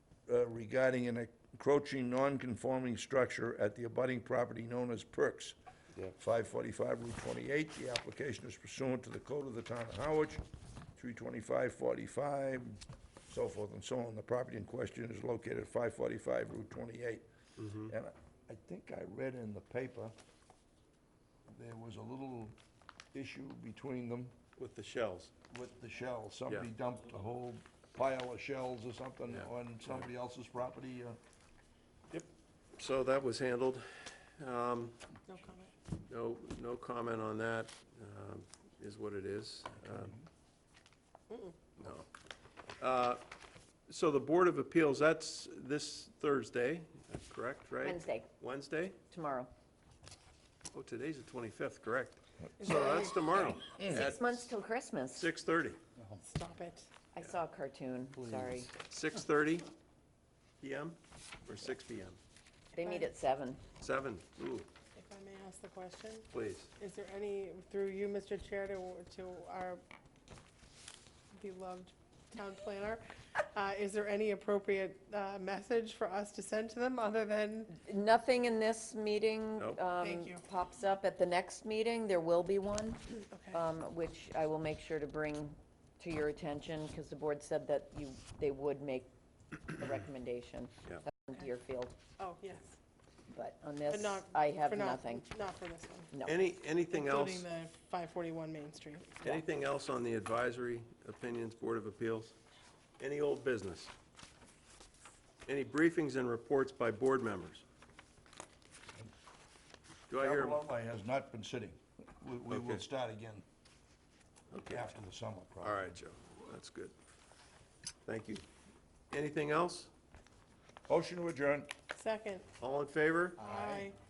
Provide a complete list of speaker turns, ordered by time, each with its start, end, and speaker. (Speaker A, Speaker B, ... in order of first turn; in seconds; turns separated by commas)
Speaker A: 0.3-5.5, Speaker A: 6.1-10.4, Speaker A: 10.9-17.2, Speaker B: 17.6-17.9, Speaker A: 17.9-20.1, Speaker A: 21.5-22.5, Speaker A: 23.1-24.3, Speaker B: 24.6-25.3, Speaker A: 25.5-31.2, Speaker B: 29.3-30.1, Speaker B: 32.1-35.0, Speaker C: 35.3-35.7, Speaker B: 36.1-40.2, Speaker B: 41.8-42.1, Speaker B: 42.8-43.2, Speaker B: 43.9-49.0, Speaker D: 47.8-48.3, Speaker D: 49.1-49.5, Speaker B: 50.7-54.5, Speaker C: 52.6-53.2, Speaker A: 53.3-54.1, Speaker D: 53.8-55.3, Speaker B: 55.1-55.8, Speaker C: 56.2-56.9, Speaker D: 57.1-58.7, Speaker B: 58.8-59.7, Speaker B: 60.6-62.2, Speaker C: 62.7-63.1, Speaker D: 62.7-63.6, Speaker B: 63.8-64.7, Speaker C: 65.0-69.8, Speaker B: 66.3-66.7, Speaker C: 71.3-77.7, Speaker D: 77.7-92.0, Speaker B: 79.6-79.8, Speaker C: 80.0-80.5, Speaker C: 83.2-83.6, Speaker C: 92.2-92.8, Speaker D: 93.3-95.2, Speaker C: 93.9-96.1, Speaker D: 96.1-96.4, Speaker B: 96.2-97.5, Speaker C: 96.9-99.2, Speaker B: 99.2-102.3, Speaker B: 103.0-103.9, Speaker B: 105.4-107.6, Speaker B: 110.1-110.6, Speaker A: 110.2-113.4, Speaker B: 112.5-112.8, Speaker B: 114.5-114.9, Speaker A: 114.7-115.9, Speaker B: 115.6-116.9, Speaker B: 118.0-118.4, Speaker B: 119.1-119.9, Speaker A: 120.9-121.7, Speaker C: 121.9-122.4, Speaker B: 122.6-123.6, Speaker C: 123.4-124.0, Speaker A: 123.5-123.8